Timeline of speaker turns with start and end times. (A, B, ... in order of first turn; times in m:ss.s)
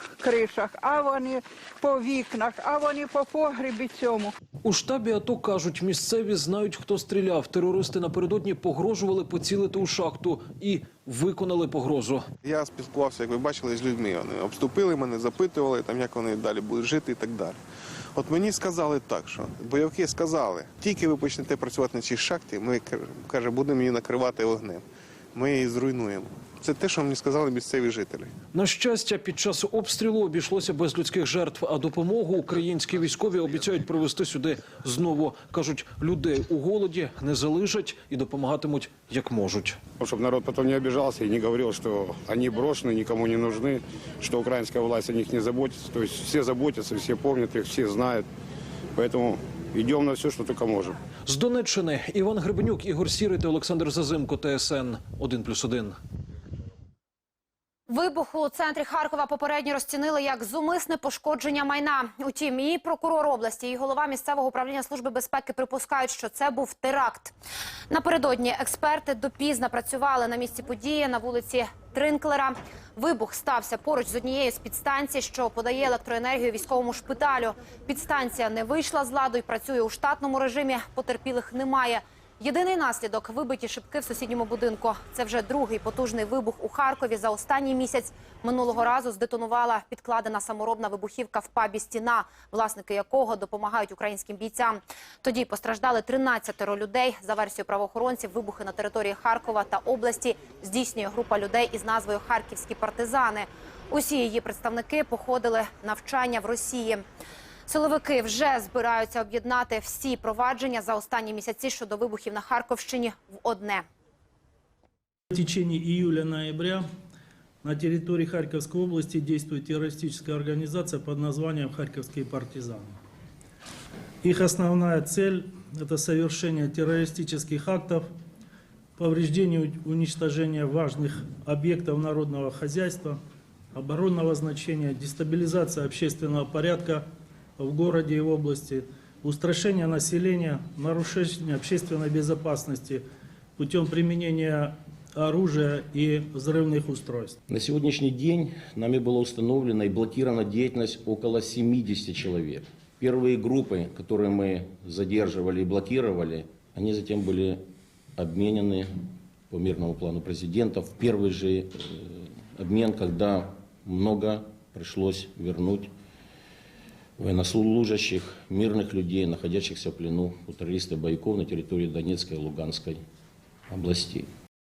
0:00.2-0:04.3 A
0:04.6-0:12.3 B
0:12.4-0:17.6 C
0:18.2-0:28.3 C
0:28.5-0:39.8 B
0:40.0-0:48.3 D
0:48.9-0:51.0 D
0:51.2-0:56.0 B
0:57.9-1:07.3 E
1:07.9-1:47.0 E
1:47.7-1:53.8 E
1:55.3-1:56.8 F
1:57.6-2:03.0 F
2:04.2-2:08.1 F
2:09.0-2:13.2 F
2:13.7-2:17.0 F
2:17.6-2:23.0 F
2:23.6-2:27.4 F
2:27.5-2:45.9 G
2:47.2-2:53.0 G
2:53.7-2:54.3 G